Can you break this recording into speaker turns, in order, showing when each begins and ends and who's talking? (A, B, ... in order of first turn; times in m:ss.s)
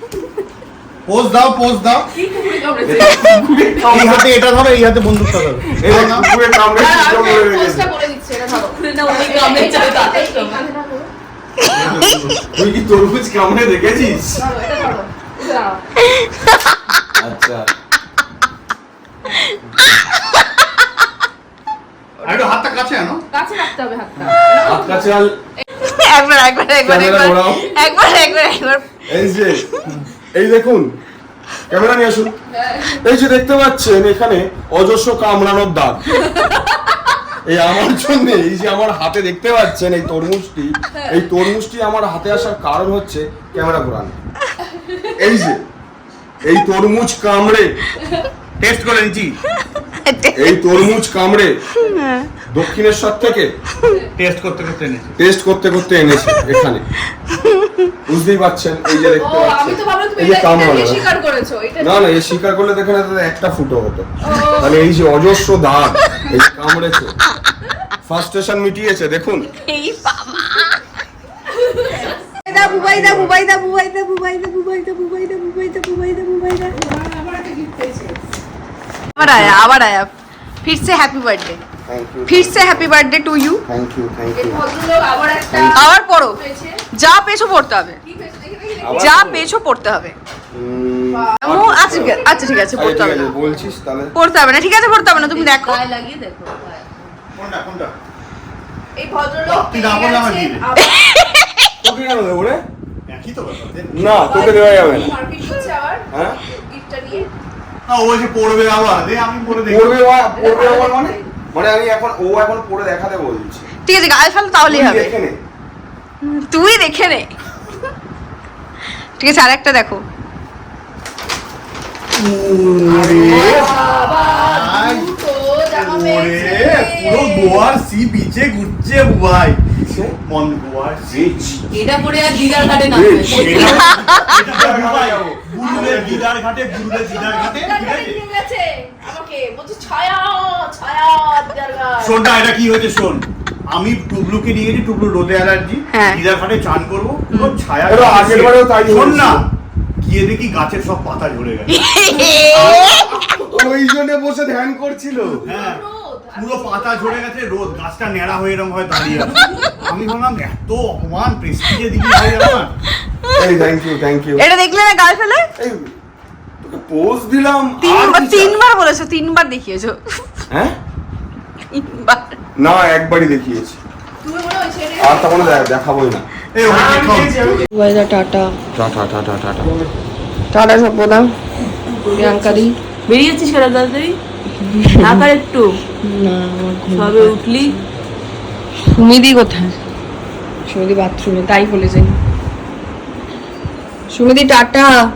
0:01.1-0:02.1 A
0:02.1-0:04.0 B
0:02.8-0:04.3 C
0:03.9-0:06.3 A
0:05.8-0:07.9 C
0:06.8-0:11.1 B
0:08.5-0:10.6 D
0:11.6-0:12.4 E
0:11.7-0:12.3 A
0:12.5-0:14.5 C
0:14.0-0:15.8 B
0:17.2-0:17.7 C
0:19.2-0:19.5 B
0:19.5-0:19.9 E
0:22.2-0:23.2 A
0:22.3-0:22.6 B
0:23.3-0:25.2 B
0:24.6-0:25.4 C
0:25.8-0:29.9 E
0:26.8-0:27.7 C
0:29.1-0:29.6 C
0:30.3-0:31.0 C
0:31.7-0:36.2 C
0:32.6-0:33.0 B
0:37.4-0:44.2 C
0:45.1-0:45.6 C
0:46.4-0:47.8 C
0:48.6-0:49.4 A
0:49.9-0:50.6 E
0:50.4-0:51.6 C
0:51.8-0:52.3 E
0:52.5-0:53.5 C
0:54.2-0:55.2 A
0:55.2-0:56.8 C
0:57.3-0:57.9 E
0:58.1-1:01.1 C
0:59.0-1:02.2 B
1:01.8-1:07.2 C
1:04.3-1:04.9 B
1:08.0-1:09.5 C
1:09.6-1:10.8 E
1:11.6-1:12.2 B
1:12.4-1:16.8 E
1:12.5-1:13.4 A
1:16.7-1:18.2 B
1:19.2-1:20.1 E
1:19.2-1:19.5 C
1:20.6-1:21.6 E
1:21.9-1:22.9 C
1:22.3-1:23.6 E
1:23.7-1:24.6 C
1:24.3-1:26.8 B
1:25.5-1:25.8 C
1:25.7-1:26.4 E
1:26.9-1:28.0 E
1:28.0-1:29.3 B
1:28.8-1:29.5 C
1:28.9-1:30.2 E
1:30.5-1:32.2 C
1:31.1-1:32.7 B
1:31.4-1:35.8 E
1:32.7-1:34.2 C
1:35.2-1:37.0 D
1:37.4-1:37.9 A
1:39.0-1:41.0 B
1:39.4-1:40.6 A
1:41.8-1:42.6 C
1:43.1-1:44.3 A
1:43.9-1:45.1 C
1:44.2-1:47.3 B
1:46.1-1:46.4 C
1:47.9-1:50.0 A
1:49.5-1:53.7 C
1:50.3-1:51.3 B
1:53.9-1:55.2 E
1:54.7-1:55.4 C
1:56.2-1:57.3 E
1:59.2-2:00.0 E
2:02.2-2:03.5 C
2:02.8-2:05.2 A
2:03.2-2:03.6 D
2:03.5-2:07.7 B
2:05.7-2:09.6 A
2:09.8-2:10.2 C
2:10.2-2:11.7 A
2:11.1-2:11.6 C
2:11.7-2:13.9 D
2:12.9-2:16.3 C
2:13.3-2:18.2 A
2:13.5-2:13.8 B
2:14.1-2:14.3 E
2:15.6-2:16.1 B
2:16.9-2:22.4 B
2:22.0-2:31.8 A
2:25.9-2:26.2 E
2:27.3-2:27.6 E
2:27.9-2:29.4 C
2:31.7-2:33.1 E
2:32.3-2:33.7 B
2:32.5-2:32.9 A
2:33.5-2:35.5 C
2:35.4-2:37.6 B
2:35.4-2:42.7 A
2:39.2-2:39.7 E
2:39.4-2:39.7 B
2:43.4-2:44.5 C
2:44.4-2:45.5 E
2:45.6-2:45.9 C
2:46.6-2:48.6 C
2:47.8-2:50.0 E
2:51.7-2:52.4 E
2:52.6-2:53.8 C
2:54.2-2:55.7 B
2:55.0-2:57.7 C
2:56.6-2:57.4 A
2:57.7-2:58.6 E
2:58.8-2:59.9 C
3:00.5-3:01.3 E
3:01.8-3:04.2 D
3:02.1-3:02.8 E
3:04.6-3:05.3 E
3:05.0-3:05.8 D
3:06.0-3:07.8 E
3:06.9-3:07.8 D
3:08.9-3:09.8 E
3:10.7-3:12.2 E
3:14.1-3:14.9 E